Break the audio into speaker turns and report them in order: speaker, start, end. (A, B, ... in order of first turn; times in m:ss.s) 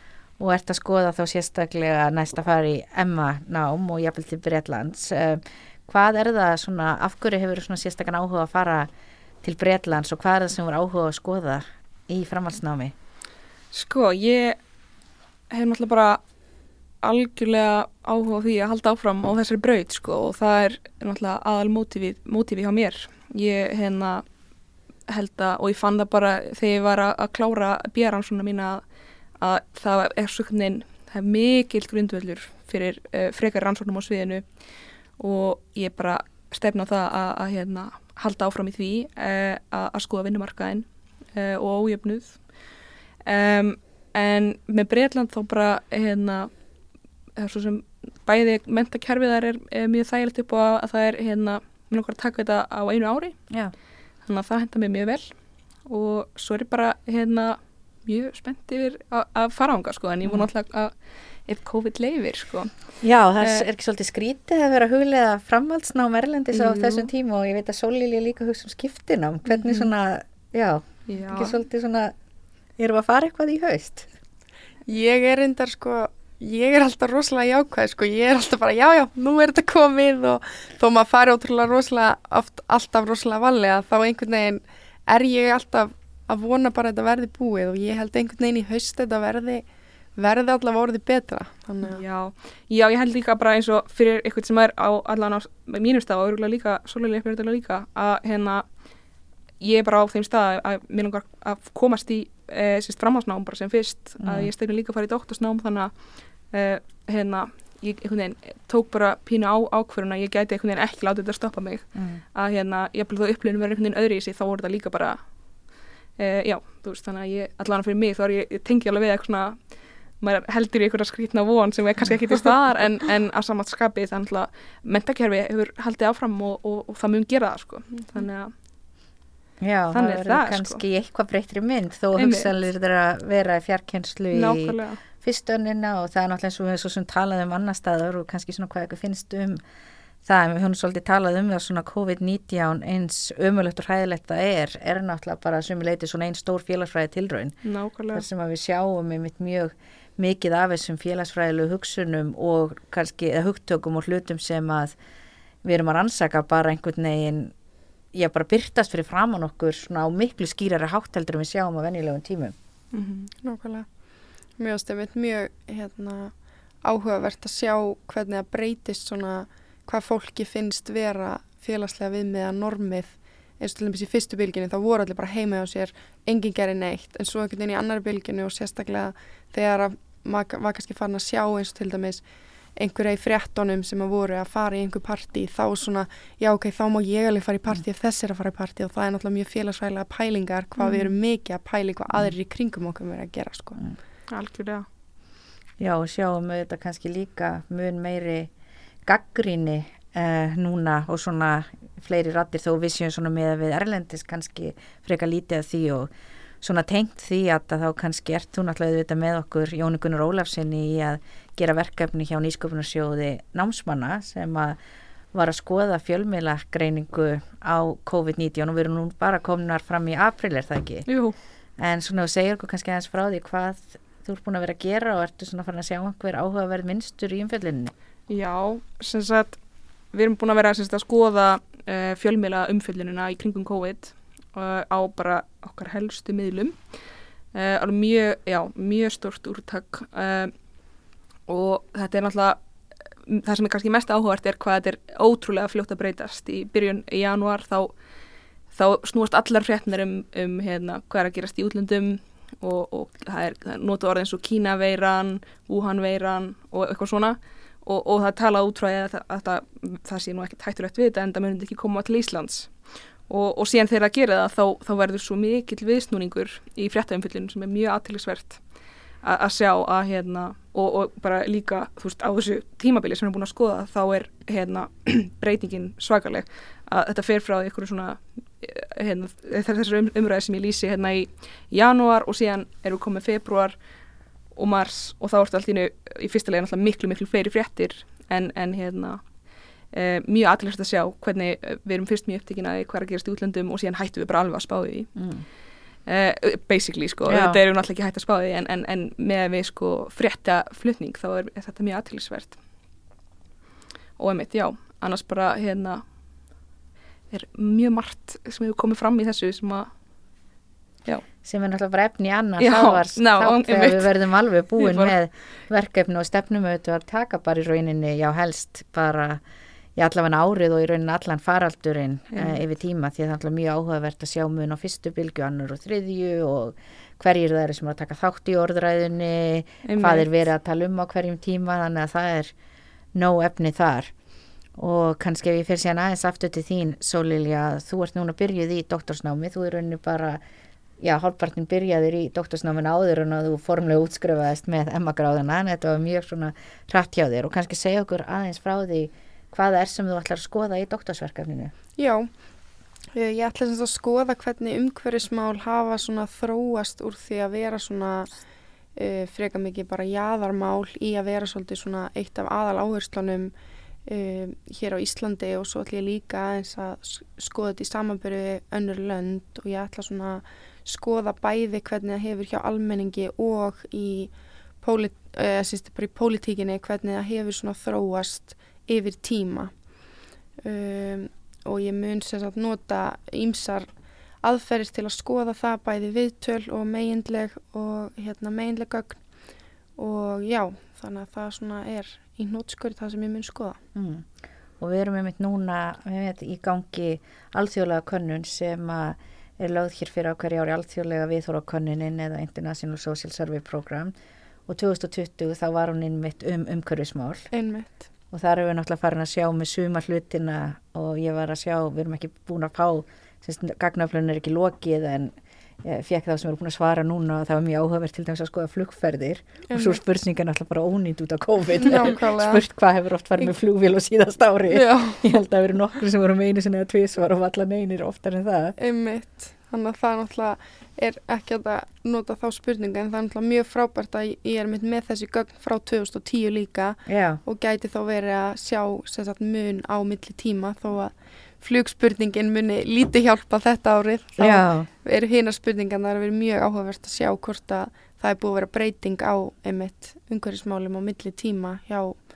0:00.4-0:08.9 A
0:09.4-0:12.9 A
0:13.7-0:14.6 B
0:15.5-0:16.2 B
0:17.0-0:24.2 B
0:25.1-0:28.8 B
0:29.4-0:34.4 B
0:35.2-0:42.5 B
0:43.2-0:46.5 B
0:47.4-0:53.4 B
0:54.2-0:55.3 B
0:55.9-1:00.9 B
1:01.4-1:02.7 B
1:03.0-1:12.1 A
1:06.5-1:07.1 B
1:09.5-1:09.9 B
1:11.1-1:11.6 B
1:12.8-1:14.1 A
1:14.9-1:29.6 C
1:30.2-1:32.0 C
1:31.8-1:38.6 B
1:39.6-1:45.9 B
1:44.2-1:44.5 A
1:46.5-1:55.2 B
1:51.9-1:52.2 A
1:56.2-2:08.5 B
2:09.6-2:19.6 A
2:09.9-2:10.8 B
2:12.1-2:12.5 B
2:14.3-2:15.0 B
2:20.2-2:27.6 A
2:27.6-2:28.2 B
2:28.1-2:34.9 A
2:35.6-2:37.5 A
2:38.1-2:42.5 A
2:42.9-2:43.3 B
2:43.4-2:43.9 C
2:44.6-3:02.2 C
3:02.8-3:13.8 C
3:10.8-3:11.1 B
3:14.3-3:14.8 B
3:15.8-3:18.5 A
3:19.0-3:26.1 A
3:26.6-3:34.8 A
3:35.3-3:41.1 A
3:41.0-3:41.4 B
3:41.8-3:47.9 A
3:48.3-3:49.6 B
3:50.1-3:56.8 B
3:57.5-4:00.5 B
4:01.5-4:02.6 B
4:03.3-4:07.9 B
4:08.7-4:22.7 B
4:23.3-4:28.6 B
4:29.2-4:43.8 B
4:44.5-4:49.2 B
4:49.9-4:55.1 B
4:55.2-4:55.4 A
4:56.0-5:02.6 B
4:57.3-4:57.6 A
5:04.2-5:06.0 B
5:07.3-5:09.9 B
5:11.4-5:19.4 A
5:12.6-5:14.1 B
5:14.8-5:15.1 B
5:20.0-5:32.5 A
5:22.3-5:22.6 B
5:29.8-5:30.3 B
5:33.1-5:34.1 A
5:34.8-5:40.4 A
5:41.0-5:51.7 A
5:52.0-5:52.3 C
5:53.1-5:58.3 C
5:59.0-6:03.5 C
6:04.1-6:19.7 C
6:20.6-6:23.9 C
6:24.4-6:29.2 C
6:30.0-6:33.8 C
6:33.9-6:44.1 A
6:44.7-6:47.5 A
6:47.5-6:48.0 C
6:48.3-7:08.8 A
6:59.7-7:00.0 C
7:01.8-7:02.6 C
7:04.7-7:05.2 C
7:08.8-7:32.2 C
7:17.1-7:17.4 A
7:24.4-7:24.9 A